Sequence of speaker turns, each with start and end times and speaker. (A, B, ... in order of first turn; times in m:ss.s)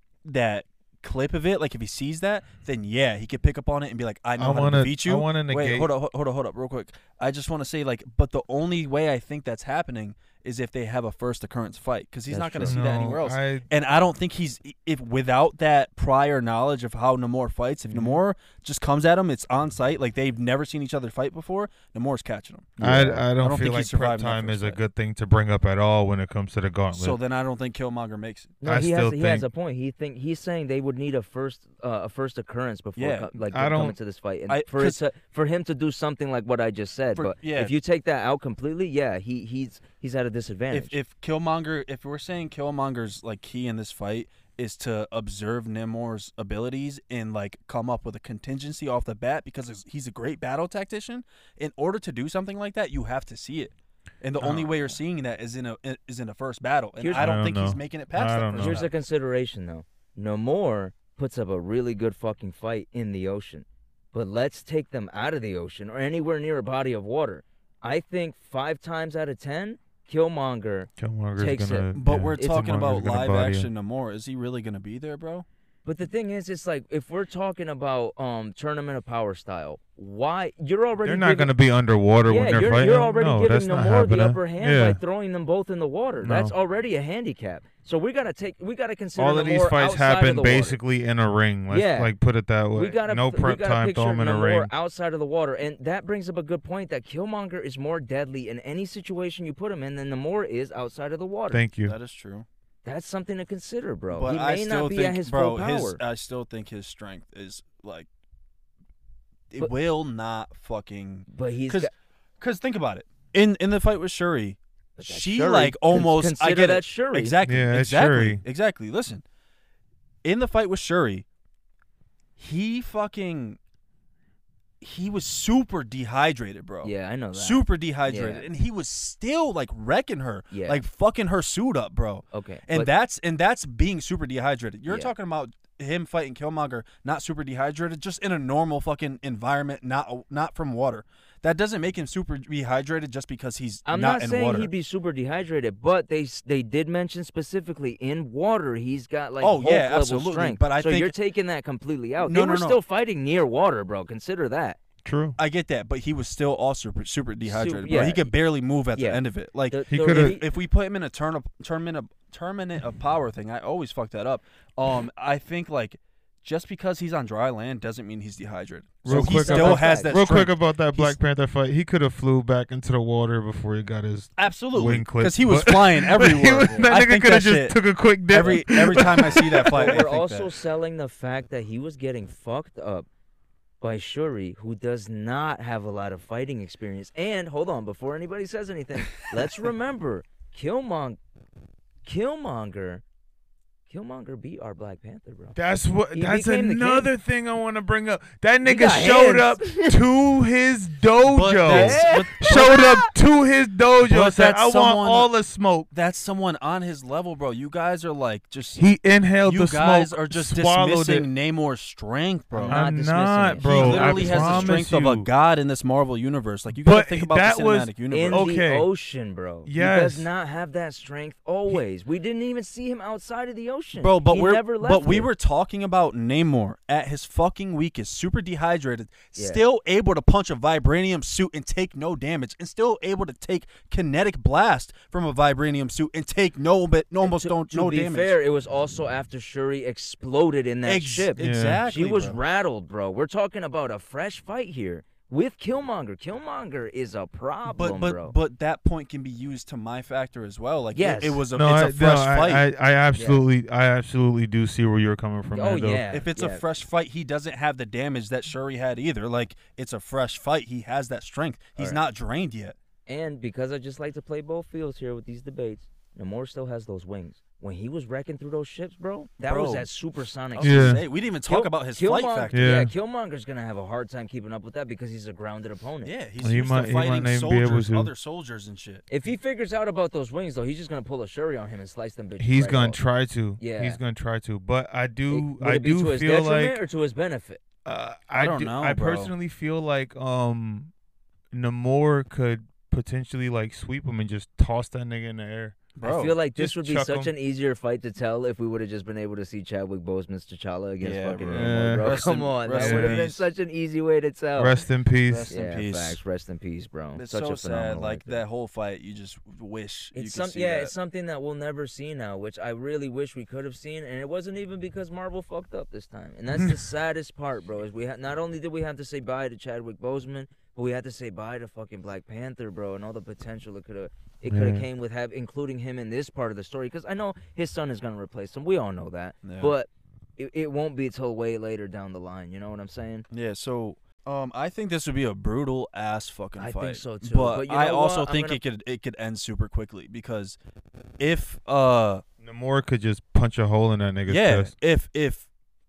0:00.2-0:24.8 A
0:04.4-0:05.9 B
0:12.3-0:12.8 C
0:12.6-0:13.7 B
0:22.8-0:27.2 B
0:22.8-0:23.2 C
0:26.9-0:28.6 A
0:28.6-0:40.9 C
0:28.6-0:29.5 B
0:33.0-0:33.3 A
0:33.4-0:34.0 B
0:34.5-0:35.0 A
0:37.2-0:37.7 A
0:40.7-0:58.9 A
0:54.4-0:54.8 B
0:57.0-0:57.3 C
0:57.2-0:58.8 B
0:58.5-1:12.6 C
1:11.0-1:13.7 B
1:11.9-1:15.4 A
1:15.8-1:21.5 C
1:21.0-1:25.0 B
1:22.3-1:30.8 C
1:26.2-1:26.5 B
1:29.2-1:34.7 B
1:31.7-1:32.1 C
1:32.7-1:41.6 C
1:41.5-1:41.9 B
1:41.8-1:42.5 A
1:42.8-1:46.0 C
1:44.1-1:48.1 A
1:49.5-1:54.6 A
1:51.3-1:51.9 C
1:55.0-1:57.4 C
1:55.1-1:59.2 A
1:57.4-1:58.4 B
2:00.2-2:01.2 A
2:02.4-2:03.6 A
2:04.8-2:24.7 A
2:06.8-2:08.5 C
2:10.5-2:10.8 C
2:12.3-2:12.9 C
2:23.8-2:34.8 C
2:29.4-2:31.1 A
2:32.2-2:32.8 A
2:35.0-2:35.4 B
2:35.4-2:51.2 A
2:37.4-2:38.3 C
2:38.9-2:40.4 C
2:39.9-2:40.4 B
2:49.0-3:00.0 B
2:49.1-2:50.2 C
2:54.4-2:57.8 A
2:56.6-2:57.0 C
2:58.3-3:00.5 A
2:58.4-3:03.0 C
3:03.8-3:11.2 C
3:12.0-3:13.0 C
3:13.9-3:15.6 C
3:15.5-3:25.9 B
3:16.1-3:17.1 C
3:18.6-3:19.9 C
3:21.2-3:22.8 A
3:21.6-3:23.0 C
3:24.0-3:25.3 A
3:25.9-3:28.9 A
3:28.8-3:31.3 B
3:29.4-3:32.8 A
3:32.6-3:35.3 B
3:32.6-3:34.8 C
3:33.6-3:38.5 A
3:36.8-3:38.9 B
3:38.1-3:45.3 C
3:39.6-3:40.3 B
3:44.0-3:58.3 A
3:49.3-3:49.6 C
3:57.2-4:08.3 C
4:00.8-4:02.4 A
4:01.4-4:01.8 B
4:07.7-4:12.6 A
4:10.9-4:11.4 C
4:11.5-4:16.0 B
4:13.1-4:13.4 C
4:15.5-4:16.6 C
4:16.1-4:22.8 A
4:23.1-4:36.1 C
4:29.4-4:29.9 A
4:30.5-4:32.7 A
4:30.6-4:31.0 B
4:32.5-4:32.9 B
4:36.0-4:39.0 A
4:36.4-4:38.1 B
4:36.8-4:37.3 C
4:39.1-4:43.0 C
4:42.4-4:46.8 B
4:43.6-4:44.0 C
4:45.3-4:47.6 C
4:47.8-4:50.9 B
4:48.3-4:49.3 A
4:51.5-4:55.9 B
4:56.0-4:56.4 A
4:56.0-5:04.8 C
4:56.5-4:57.3 B
5:01.0-5:03.4 A
5:01.5-5:02.2 B
5:02.8-5:03.2 B
5:04.6-5:05.5 B
5:05.2-5:06.2 A
5:05.5-5:08.4 C
5:07.1-5:10.9 A
5:10.1-5:33.2 C
5:24.5-5:24.8 B
5:29.4-5:29.7 A
5:33.3-5:40.6 A
5:36.6-5:38.6 C
5:41.2-5:42.2 A
5:42.4-5:44.7 B
5:44.3-5:45.5 A